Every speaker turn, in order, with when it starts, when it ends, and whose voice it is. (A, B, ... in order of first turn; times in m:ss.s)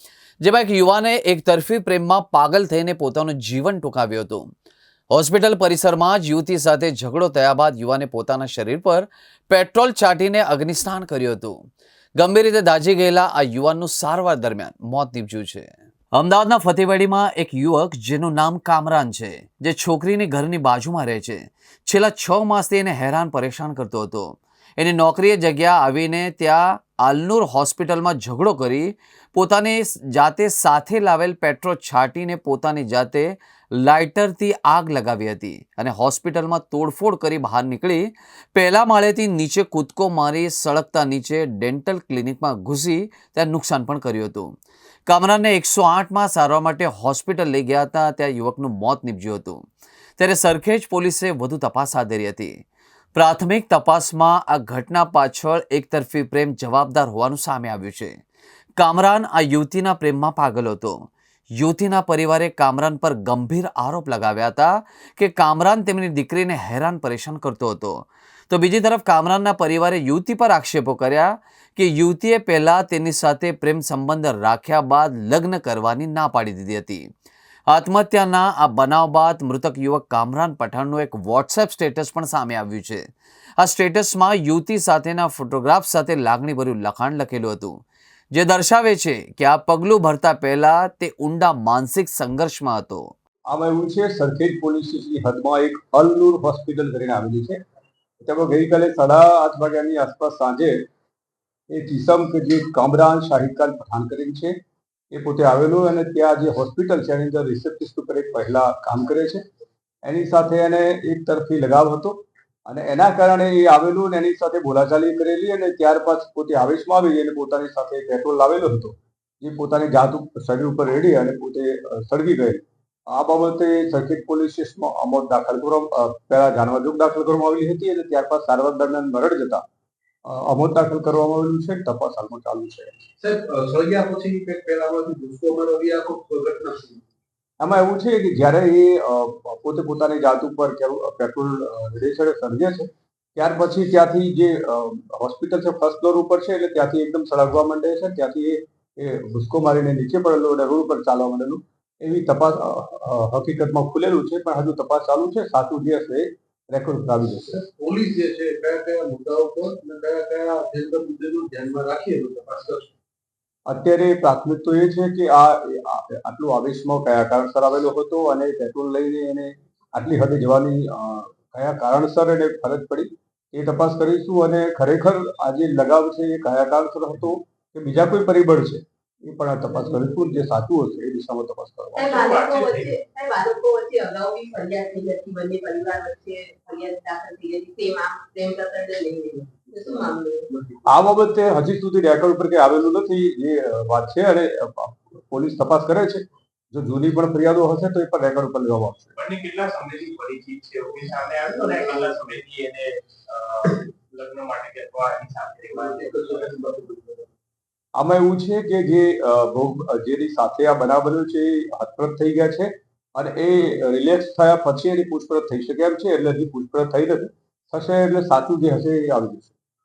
0:00.4-0:04.5 A
0:05.1-0:11.6 A
0:12.2-0:44.5 A
0:45.1-0:49.6 A
0:50.2-0:52.6 A
0:53.1-0:58.2 A
0:58.8-1:17.0 A
1:17.7-1:23.1 A
1:23.6-1:33.1 A
1:33.5-1:37.6 B
1:38.2-1:40.8 B
1:41.7-1:44.5 B
1:45.1-1:49.4 B
1:50.0-2:09.6 B
2:10.2-2:13.0 B
2:13.2-2:17.0 C
2:17.6-2:37.6 B
2:37.7-2:42.9 C
2:43.7-3:02.1 B
3:02.0-3:10.5 D
3:02.0-3:02.9 E
3:10.8-3:19.1 B
3:19.2-3:26.5 E
3:25.7-3:27.3 C
3:28.0-3:39.5 B